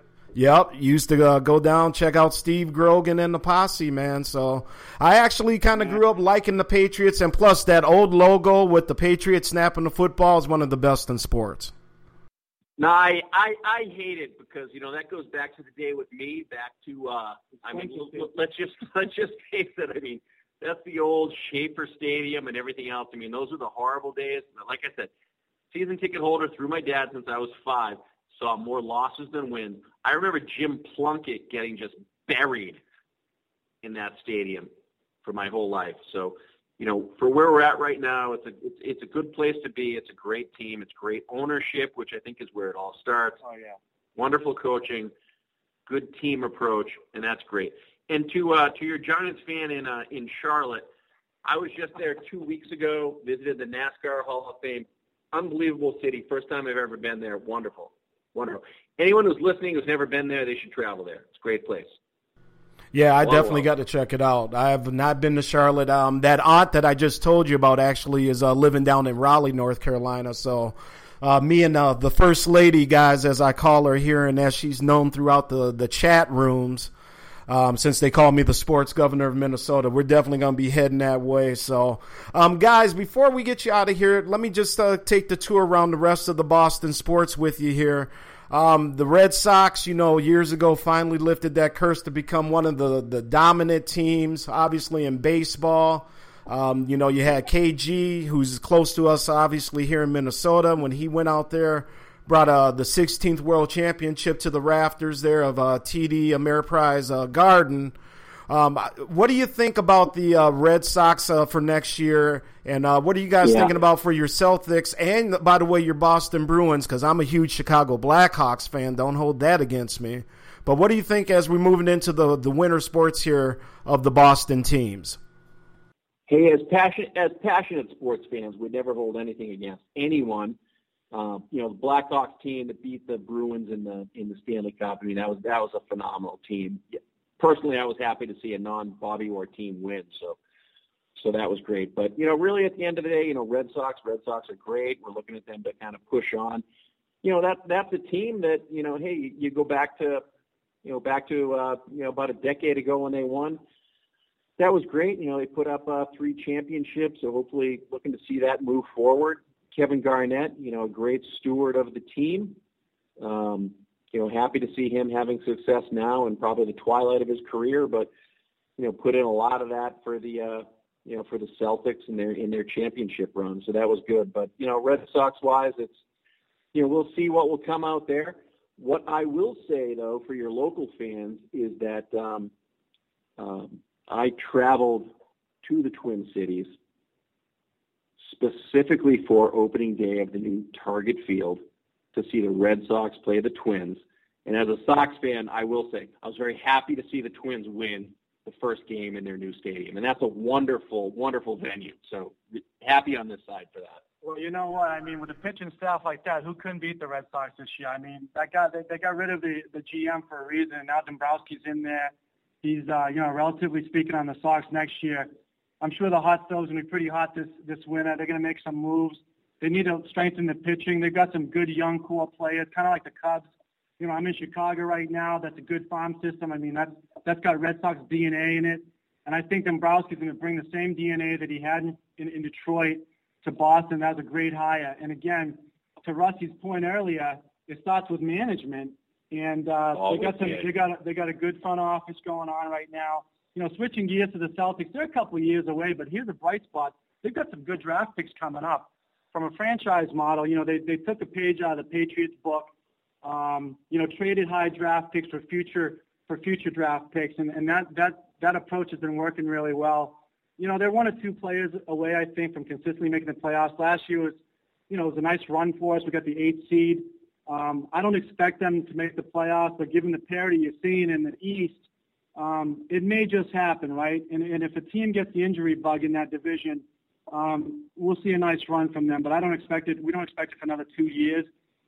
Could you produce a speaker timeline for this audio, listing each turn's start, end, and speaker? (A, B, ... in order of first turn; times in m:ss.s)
0:00.4-0:11.7 A
0:12.8-0:25.1 B
0:17.7-0:18.2 C
0:25.7-0:32.8 B
0:33.8-0:34.7 B
0:35.2-0:43.4 B
0:43.4-0:43.8 C
0:44.2-0:45.1 B
0:45.9-0:50.9 B
0:51.4-1:02.0 B
1:02.9-1:16.9 A
1:03.2-1:03.7 B
1:17.5-1:48.0 A
1:48.5-2:05.2 A
1:53.4-1:53.7 B
2:06.3-2:10.6 B
2:11.1-2:16.8 B
2:17.4-2:20.4 B
2:21.2-2:26.6 B
2:27.2-2:30.2 B
2:30.8-2:33.6 B
2:34.6-2:42.6 B
2:43.2-2:48.1 B
2:48.8-2:56.0 B
2:56.7-3:02.5 B
3:03.4-3:05.1 B
3:05.6-3:06.7 B
3:08.2-3:11.6 B
3:12.1-3:24.0 B
3:24.2-3:43.5 C
3:44.0-4:12.7 C
3:59.9-4:00.7 B
4:13.2-4:24.4 C
4:24.9-4:41.5 C